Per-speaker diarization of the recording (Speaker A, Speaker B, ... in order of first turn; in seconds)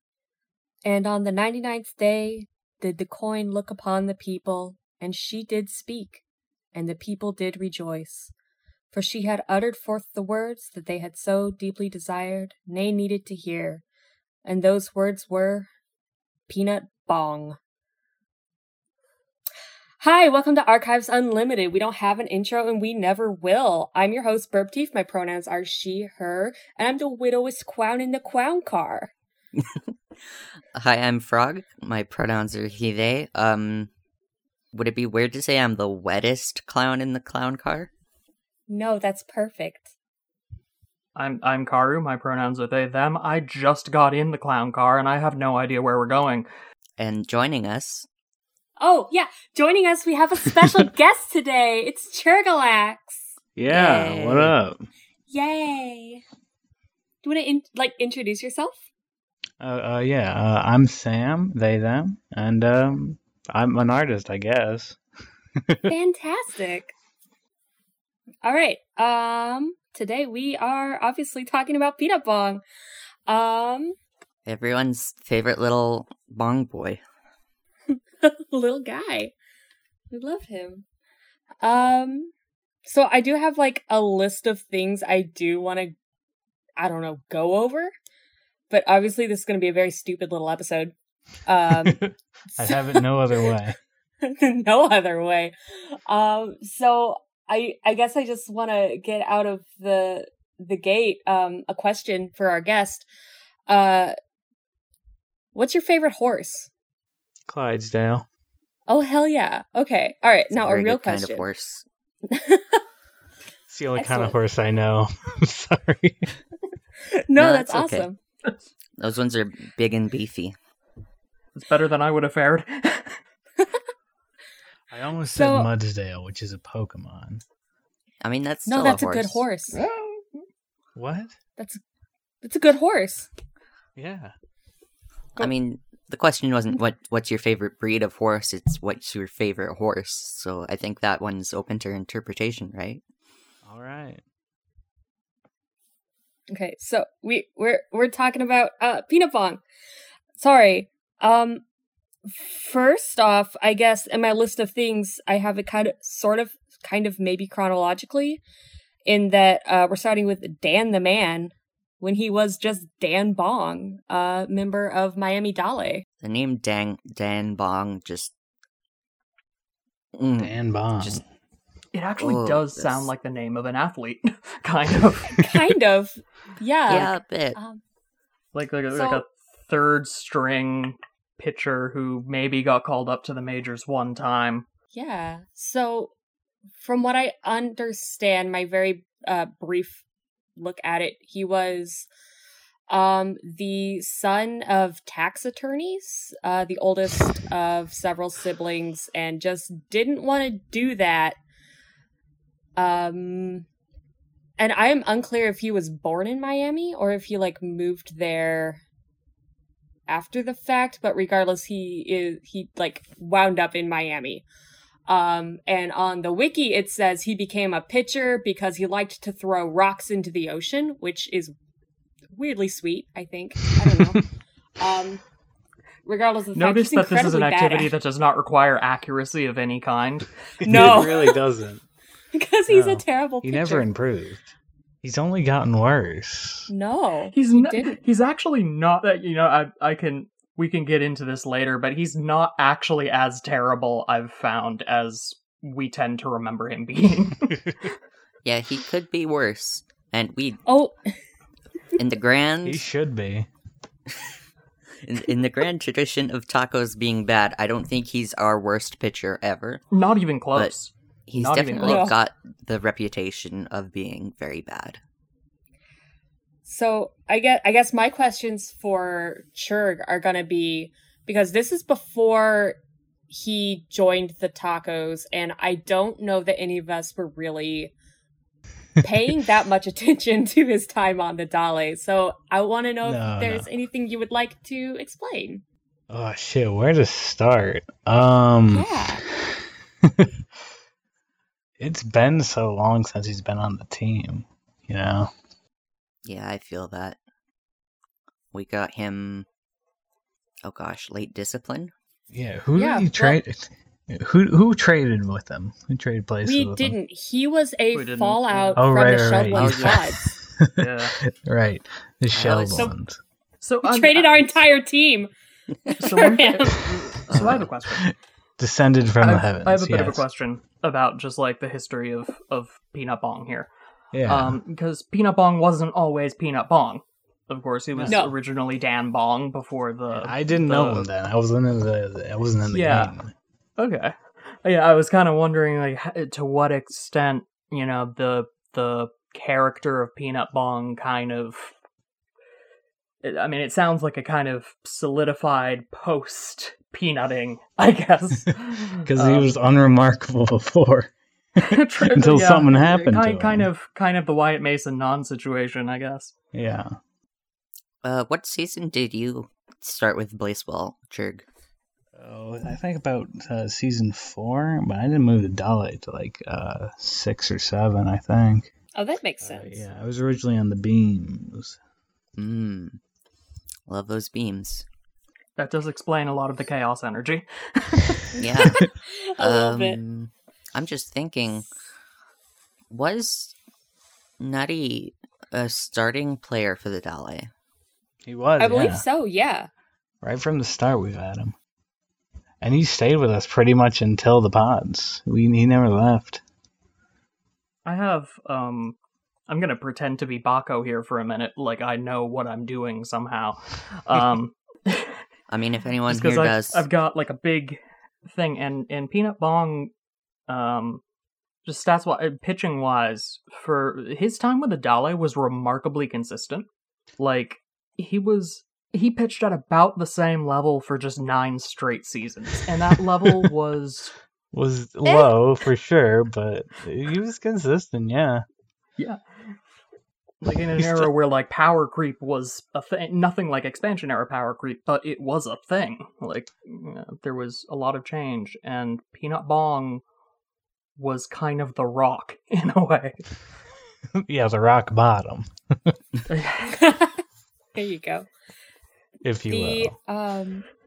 Speaker A: 0.8-6.2, 6.7-8.3, 8.9-13.8, 14.4-15.7, 16.5-17.6, 20.0-29.1, 38.7-39.9, 48.8-54.6, 55.3-56.2, 57.2-58.8, 65.9-66.9, 68.4-72.6, 73.3-74.0, 77.9-79.3, 80.1-80.8, 81.6-82.3, 82.8-85.9, 86.8-87.9, 88.7-90.9, 91.5-93.1, 94.2-103.1, 103.7-104.2, 105.5-106.7, 108.9-111.5, 112.3-112.8, 114.0-114.4, 117.1-118.2, 125.3-125.7, 128.7-129.8, 132.4-133.3, 146.5-149.6, 150.4-151.6, 152.3-158.4, 159.1-166.1, 175.3-177.8, 178.9-179.2, 184.9-186.1, 186.8-190.0, 190.6-192.1, 192.9-201.4, 202.8-203.7, 204.6-208.8, 210.1-214.4, 215.1-221.5, 222.3-224.2, 224.8-225.2, 226.1-227.9, 230.6-231.4, 232.3-233.9, 236.7-238.0, 250.7-250.9, 261.8-262.2, 266.6-272.8, 273.3-277.9, 279.0-285.6, 288.7-289.2, 302.8-303.4, 306.4-310.3, 313.8-315.3, 315.9-317.0, 328.1-328.4, 368.9-369.9, 378.4-380.0, 388.6-389.7, 425.1-425.3, 446.6-447.2, 447.8-448.3, 449.5-450.6
Speaker B: 30.8-33.9, 34.7-37.9, 47.0-48.1, 74.5-77.0, 110.5-111.8, 117.4-118.1, 119.0-120.5, 128.2-129.4, 135.4-143.0, 166.2-168.3, 170.2-171.2, 172.2-173.1, 176.9-177.6, 248.4-250.6, 252.0-252.8, 255.0-259.8, 261.3-265.0, 296.2-297.2, 298.5-299.5, 300.6-301.9, 309.5-310.0, 317.3-317.7, 358.0-361.5, 372.4-373.0, 373.9-374.9, 378.4-378.9, 379.4-381.7, 382.9-383.6, 384.4-387.5, 405.5-406.9
Speaker C: 41.1-46.5, 121.5-123.2, 129.7-130.3, 171.9-175.6, 178.5-184.7, 226.6-231.0, 237.3-247.9, 259.9-262.1, 307.9-308.8, 310.8-311.2, 312.3-312.9, 313.6-314.6, 316.0-318.1, 319.2-323.7, 324.3-331.1, 332.7-333.1, 333.8-341.7, 343.2-349.5, 351.6-356.3, 375.6-378.2, 397.9-399.0, 399.5-405.2, 406.1-409.9, 410.5-411.0, 411.6-416.7, 417.2-424.1, 430.4-440.0, 441.0-443.2, 446.3-446.8
Speaker D: 53.6-54.8, 59.6-65.0, 65.6-65.9, 91.7-93.8, 107.5-108.3, 113.7-116.4, 124.9-127.4, 130.9-131.3, 134.0-134.3, 143.7-144.2, 170.4-171.2, 230.6-231.8, 232.7-236.7, 252.7-253.5, 283.0-283.7, 286.1-288.9, 289.5-290.3, 291.8-295.3, 302.3-306.9, 308.8-313.2, 317.6-320.2, 324.1-324.6, 327.9-328.3, 330.1-333.3, 349.1-353.7, 356.5-357.0, 362.2-368.7, 369.4-371.8, 388.2-389.1, 390.2-391.6, 392.6-396.4, 424.5-428.4, 430.8-431.1, 444.2-446.0, 449.2-449.9